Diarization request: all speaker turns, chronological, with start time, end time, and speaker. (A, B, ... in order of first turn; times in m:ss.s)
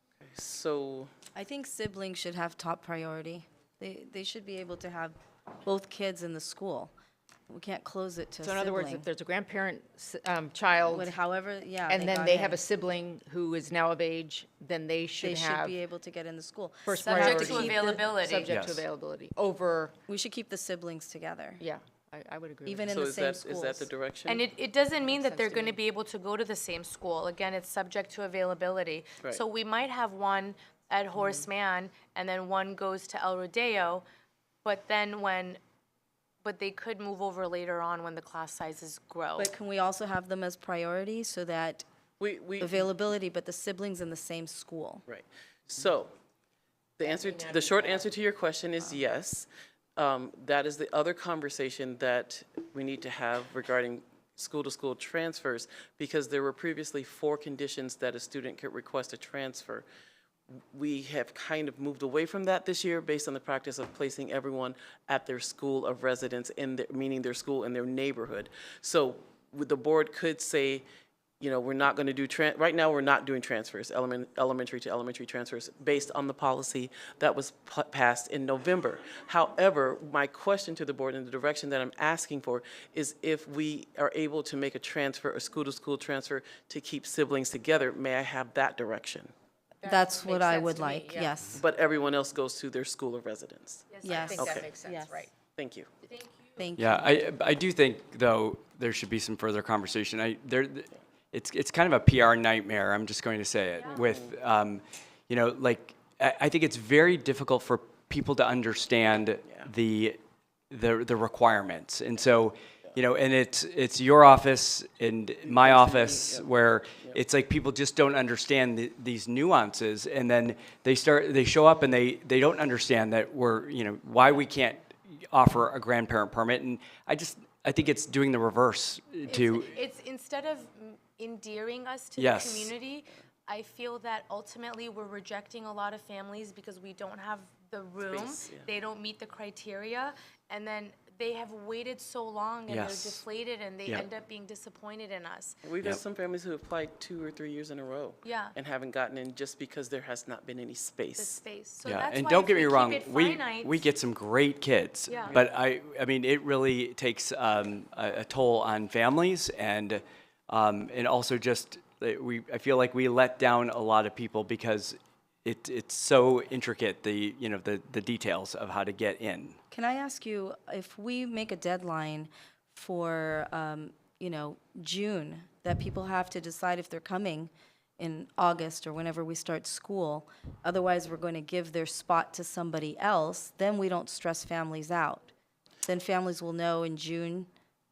0:00.2-0:01.1 A
0:01.3-0:06.9 B
0:07.5-0:09.1 B
0:08.4-0:11.1 C
0:10.9-0:12.6 B
0:11.9-0:15.8 C
0:15.2-0:18.0 B
0:16.8-0:19.9 C
0:17.1-0:18.5 D
0:18.5-0:18.8 E
0:20.1-0:21.6 B
0:21.6-0:23.0 C
0:22.6-0:23.9 B
0:22.9-0:24.4 A
0:24.3-0:34.0 D
0:25.1-0:25.8 C
0:34.6-0:35.6 D
0:36.4-0:39.5 D
0:39.4-0:41.8 B
0:42.2-0:42.8 A
0:42.6-0:45.0 B
0:45.1-0:46.1 A
0:47.0-0:59.9 A
1:00.7-1:10.8 A
1:11.4-1:29.3 A
1:29.8-1:31.4 C
1:29.8-1:31.6 B
1:31.6-1:34.7 A
1:33.9-1:34.6 D
1:34.0-1:35.3 B
1:34.0-1:35.3 C
1:35.6-1:35.9 A
1:36.6-1:37.3 B
1:36.8-1:50.2 E
1:43.8-1:44.0 D
1:49.4-1:49.7 A
1:50.7-2:09.7 E
1:55.4-1:56.4 A
2:09.3-2:25.6 D
2:12.2-2:12.7 E
2:18.0-2:18.7 A
2:22.7-2:23.2 E
2:25.6-2:31.4 A
2:28.2-2:28.6 D
2:31.2-2:33.9 D
2:31.8-2:49.6 E
2:35.1-2:35.4 D
2:49.7-3:05.3 B
3:05.9-3:07.5 B